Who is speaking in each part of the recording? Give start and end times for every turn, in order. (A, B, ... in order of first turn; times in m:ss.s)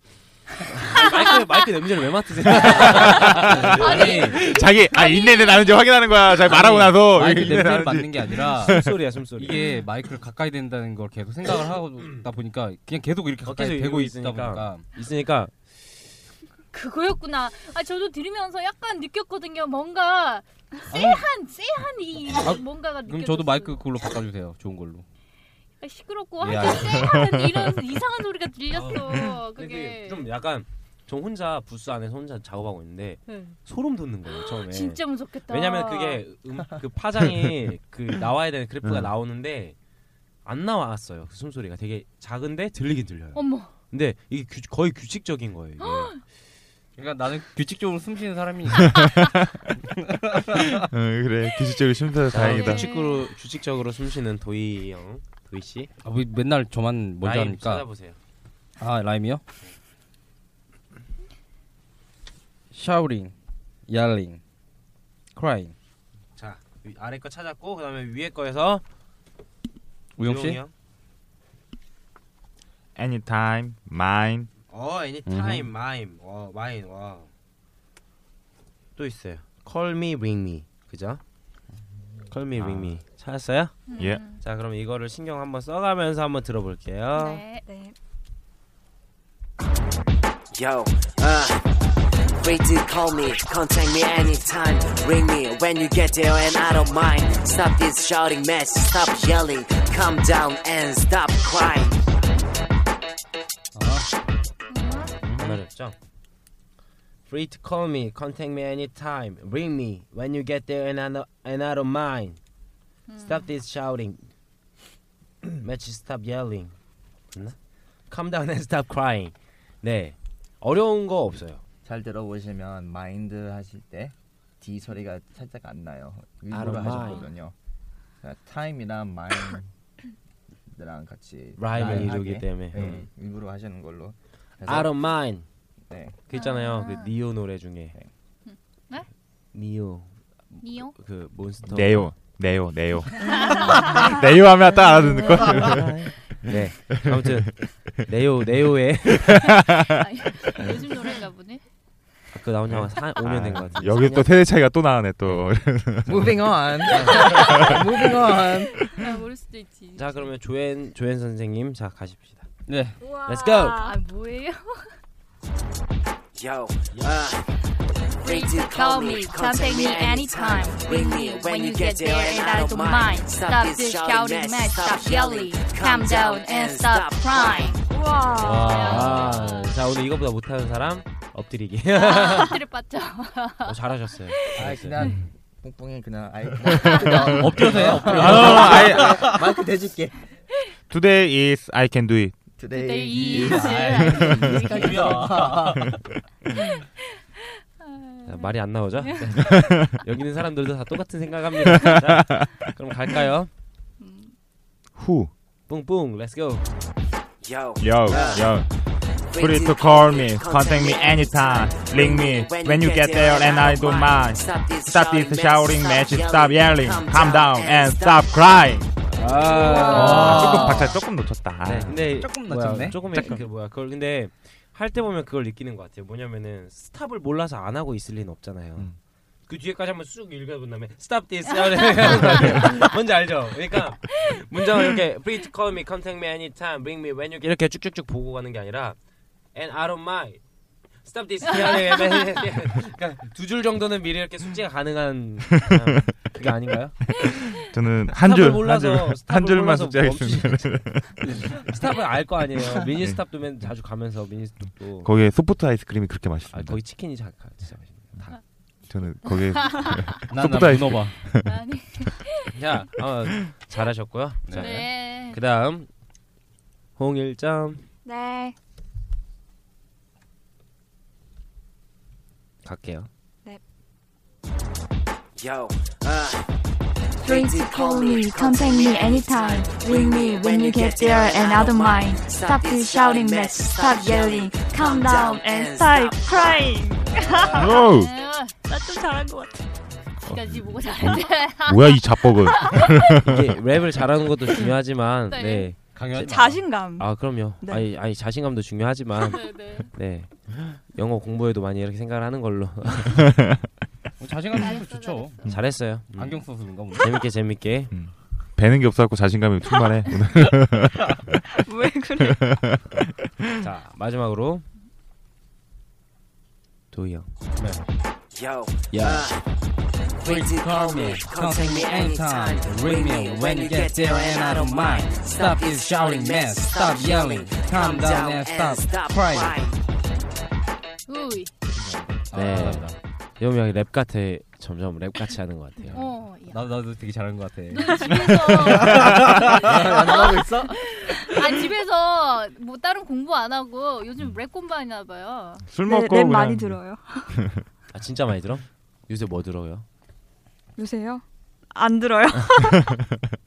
0:00.7-0:01.0 A
0:00.9-0:04.4 B
0:02.6-0:09.0 C
0:03.1-0:04.4 A
0:03.6-0:05.7 D
0:06.4-0:14.9 A
0:08.6-0:09.7 B
0:13.4-0:15.5 B
0:16.7-0:23.8 D
0:20.9-0:21.2 A
0:22.4-0:25.0 A
0:25.8-0:30.3 D
0:26.4-0:27.2 A
0:27.0-0:27.7 C
0:28.7-0:39.8 B
0:33.3-0:33.6 D
0:34.3-0:36.2 D
0:38.8-0:39.1 C
0:40.4-0:46.2 B
0:43.3-0:43.7 D
0:45.8-0:46.1 D
0:47.0-0:49.2 A
0:49.0-0:49.5 C
0:49.7-0:50.8 A
0:50.9-0:52.8 C
0:52.3-0:55.9 B
0:52.4-0:53.3 D
0:56.0-0:57.9 A
0:57.2-0:58.2 B
0:58.8-0:59.4 A
1:02.7-1:03.3 A
1:03.9-1:04.4 A
1:05.3-1:05.7 A
1:06.4-1:08.8 B
1:10.2-1:10.6 A
1:10.2-1:10.7 B
1:13.0-1:14.5 C
1:14.7-1:17.3 B
1:15.2-1:15.7 A
1:19.0-1:21.2 B
1:22.3-1:27.4 B
1:22.5-1:23.0 C
1:23.9-1:24.4 D
1:24.0-1:24.2 C
1:27.1-1:27.6 D
1:27.6-1:27.9 E
1:30.5-1:31.6 F
1:32.4-1:42.0 F
1:43.7-1:44.1 A
1:44.7-1:45.1 D
1:45.2-1:45.6 A
1:45.4-1:46.0 B
1:47.2-1:52.4 B
1:53.1-1:53.5 D
1:53.2-1:54.3 B
1:55.6-1:56.7 B
1:58.1-2:01.6 B
2:01.8-2:07.5 G
2:06.5-2:07.3 B
2:08.2-2:09.7 G
2:10.8-2:14.9 G
2:11.6-2:13.0 B
2:11.8-2:12.0 A
2:14.6-2:15.4 B
2:15.9-2:16.2 G
2:16.3-2:17.9 B
2:16.3-2:17.1 D
2:18.4-2:19.1 D
2:19.5-2:22.2 B
2:20.6-2:20.9 D
2:21.6-2:27.7 C
2:23.3-2:24.0 D
2:23.3-2:24.0 B
2:25.4-2:25.7 B
2:26.3-2:29.6 B
2:29.1-2:30.0 C
2:29.9-2:31.6 D
2:32.3-2:34.4 B
2:32.7-2:36.6 C
2:35.2-2:35.5 B
2:36.0-2:38.9 G
2:36.9-2:37.8 B
2:37.1-2:37.4 D
2:37.4-2:37.8 C
2:38.6-2:40.3 D
2:39.9-2:42.4 B
2:42.7-2:43.0 A
2:43.0-2:44.0 E
2:43.2-2:43.8 B
2:43.8-2:44.9 D
2:46.4-2:47.5 F
2:48.2-2:57.8 D
2:48.2-2:57.8 F
2:57.9-2:59.0 E
2:58.4-2:59.5 A
2:58.4-2:59.8 D
2:58.8-3:02.6 B
3:01.9-3:03.7 D
3:03.6-3:05.0 B
3:04.3-3:04.7 D
3:04.6-3:10.2 G
3:07.0-3:07.4 C
3:07.1-3:09.5 A
3:08.0-3:09.2 C
3:10.9-3:12.4 C
3:12.6-3:16.0 G
3:12.7-3:15.4 D
3:13.1-3:16.0 A
3:16.5-3:16.9 D
3:17.8-3:19.5 D
3:18.2-3:19.4 B
3:19.4-3:20.0 C
3:20.0-3:23.5 B
3:21.6-3:22.5 C
3:24.0-3:24.3 D
3:25.0-3:25.3 C
3:25.7-3:26.6 B
3:27.4-3:28.4 F
3:27.8-3:28.7 C
3:29.3-3:38.4 F
3:29.3-3:38.9 C
3:39.1-3:40.9 B
3:39.1-3:41.0 A
3:39.6-3:40.1 E
3:39.9-3:42.3 C
3:41.6-3:48.9 B
3:41.8-3:43.0 A
3:43.1-3:43.4 C
3:49.5-3:59.0 B
3:52.1-3:52.5 C
3:59.5-4:00.4 B
4:01.0-4:07.1 B
4:07.2-4:11.4 C
4:08.1-4:15.1 B
4:14.9-4:16.8 C
4:16.5-4:18.4 B
4:18.9-4:21.5 C
4:19.2-4:20.2 D
4:20.3-4:21.2 A
4:21.4-4:22.5 D
4:22.5-4:22.9 A
4:23.0-4:25.9 B
4:24.4-4:24.8 A
4:24.6-4:25.4 D
4:27.0-4:27.8 B
4:28.0-4:28.6 E
4:32.6-4:33.1 B
4:35.4-4:36.5 F
4:37.2-4:46.8 F
4:37.2-4:47.9 E
4:47.0-4:47.7 A
4:47.4-4:48.5 D
4:47.5-4:48.1 C
4:48.6-4:49.7 E
4:50.2-4:53.0 D
4:50.2-4:53.4 C
4:53.2-4:56.3 B
4:54.5-4:54.8 E
4:55.3-4:55.7 D
4:55.9-4:56.6 A
4:56.2-4:57.9 E
4:57.0-5:03.3 B
4:59.3-4:59.9 D
5:04.2-5:07.2 A
5:04.5-5:05.5 D
5:05.5-5:07.9 B
5:07.9-5:11.4 C
5:11.5-5:12.5 E
5:12.2-5:13.6 C
5:13.6-5:14.6 B
5:16.9-5:17.8 B
5:18.3-5:19.4 F
5:20.2-5:29.6 A
5:20.2-5:29.8 F
5:31.1-5:31.5 D
5:31.7-5:32.6 G
5:32.3-5:33.0 A
5:32.3-5:36.0 B
5:35.9-5:39.6 A
5:35.9-5:36.7 D
5:37.7-5:45.6 D
5:39.4-5:40.9 G
5:45.7-5:47.6 C
5:45.8-5:47.3 E
5:47.9-5:49.8 B
5:50.8-5:52.8 E
5:52.6-5:53.0 C